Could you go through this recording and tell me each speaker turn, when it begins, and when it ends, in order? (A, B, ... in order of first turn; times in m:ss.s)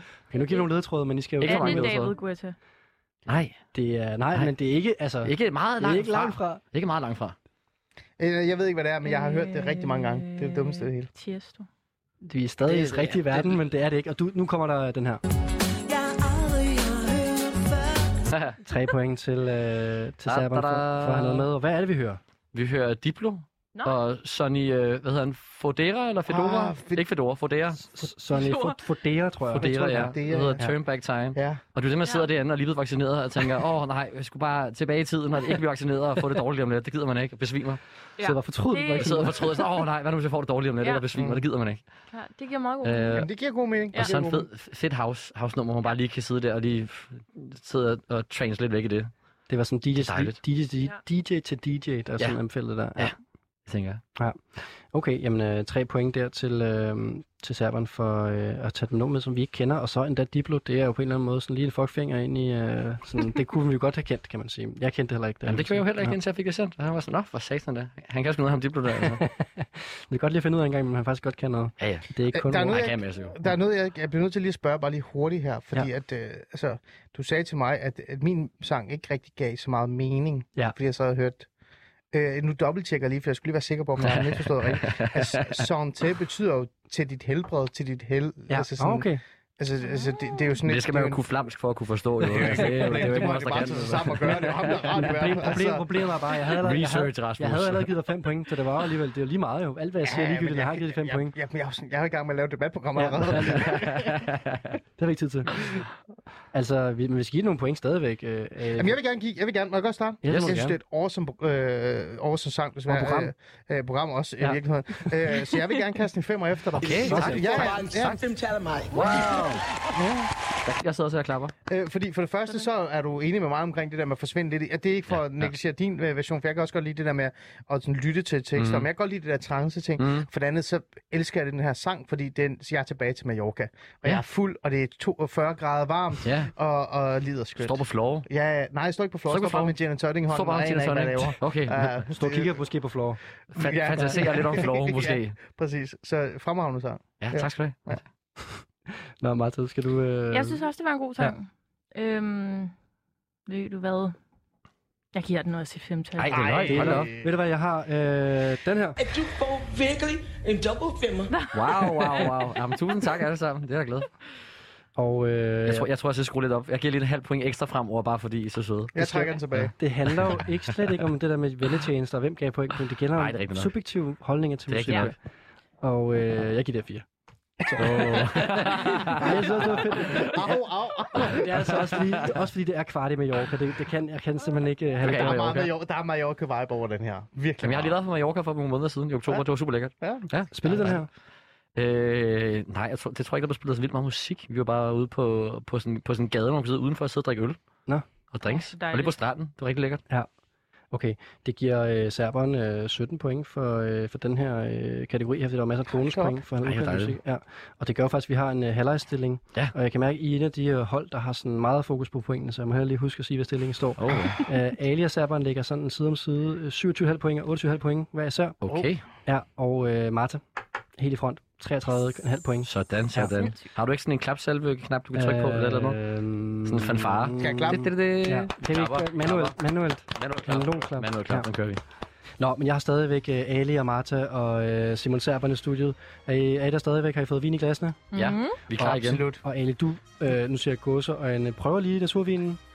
0:00.3-0:02.0 A
0:00.3-0:00.6 B
0:01.4-0:02.2 C
0:01.4-0:02.6 B
0:03.3-0:03.6 C
0:03.7-0:06.6 A
0:05.2-0:07.4 C
0:08.2-0:11.1 D
0:09.0-0:11.7 B
0:12.2-0:15.2 A
0:12.8-0:13.6 C
0:18.2-0:18.6 C
0:18.6-0:22.2 A
0:20.2-0:21.4 C
0:22.5-0:27.9 C
0:26.3-0:27.0 D
0:27.9-0:30.7 A
0:28.3-0:28.8 B
0:29.5-0:37.8 C
0:30.0-0:30.6 D
0:31.3-0:31.6 D
0:32.0-0:32.3 B
0:38.2-0:39.7 B
0:38.2-0:39.5 A
0:39.0-0:41.8 C
0:40.8-0:41.1 B
0:41.1-0:41.4 D
0:42.1-0:43.2 B
0:42.8-0:43.3 C
0:43.1-0:44.5 D
0:43.9-0:49.1 C
0:49.5-0:53.1 A
0:49.9-0:50.4 C
0:53.7-0:54.0 C
0:54.9-1:06.2 A
1:05.5-1:09.2 C
1:09.0-1:12.8 A
1:11.8-1:12.0 C
1:12.3-1:21.5 D
1:12.6-1:13.3 C
1:22.1-1:31.2 D
1:24.0-1:25.6 C
1:28.5-1:29.2 A
1:29.8-1:30.6 B
1:30.6-1:34.8 C
1:32.2-1:35.8 D
1:32.4-1:33.3 A
1:34.3-1:41.3 A
1:36.6-1:37.9 C
1:40.0-1:44.3 D
1:42.9-1:43.9 A
1:43.5-1:44.6 C
1:45.0-1:45.7 A
1:46.5-1:49.0 A
1:48.8-1:58.2 D
1:50.2-1:50.7 A
1:52.9-1:53.3 A
1:54.4-1:55.1 A
1:56.8-1:58.2 C
1:56.8-1:59.5 E
1:57.0-1:57.5 A
1:58.9-1:59.6 C
1:59.0-2:00.3 D
2:00.6-2:01.5 C
2:01.7-2:22.5 D
2:05.2-2:05.5 C
2:08.6-2:08.9 C
2:10.0-2:10.3 C
2:16.2-2:16.5 C
2:17.6-2:18.3 C
2:19.3-2:19.7 C
2:20.3-2:22.0 C
2:22.1-2:23.2 A
2:23.5-2:25.4 C
2:23.5-2:28.0 D
2:23.9-2:24.4 A
2:27.2-2:28.0 C
2:29.2-2:30.6 A
2:30.3-2:32.7 B
2:33.5-2:34.1 B
2:35.1-2:36.5 B
2:36.2-2:37.1 C
2:36.3-2:37.3 D
2:36.7-2:39.0 A
2:39.0-2:41.3 E
2:41.3-2:42.4 B
2:41.5-2:44.1 C
2:45.0-2:45.9 A
2:45.6-2:49.7 C
2:48.9-2:49.7 D
2:49.8-2:55.1 A
2:53.1-2:53.7 C
2:54.7-2:55.1 C
2:55.8-2:57.0 A
2:57.6-2:58.3 D
2:57.8-2:59.3 C
2:59.1-3:00.3 A
3:00.0-3:02.0 D
3:01.3-3:05.6 A
3:05.0-3:05.7 C
3:05.0-3:08.0 D
3:07.6-3:11.0 C
3:10.5-3:11.1 A
3:11.7-3:17.6 C
3:18.3-3:20.0 C
3:18.4-3:19.2 B
3:20.9-3:38.6 A
3:26.0-3:26.4 D
3:26.6-3:27.2 C
3:34.0-3:34.4 C
3:38.6-3:39.0 C
3:39.2-3:40.4 A
3:41.0-3:43.3 A
3:42.6-3:46.0 C
3:45.1-3:51.5 A
3:46.7-3:49.6 C
3:47.4-3:47.9 D
3:50.1-3:51.8 C
3:52.4-3:58.1 A
3:58.1-3:58.6 B
3:58.1-3:59.3 C
3:58.8-3:59.4 D
3:59.4-4:02.6 A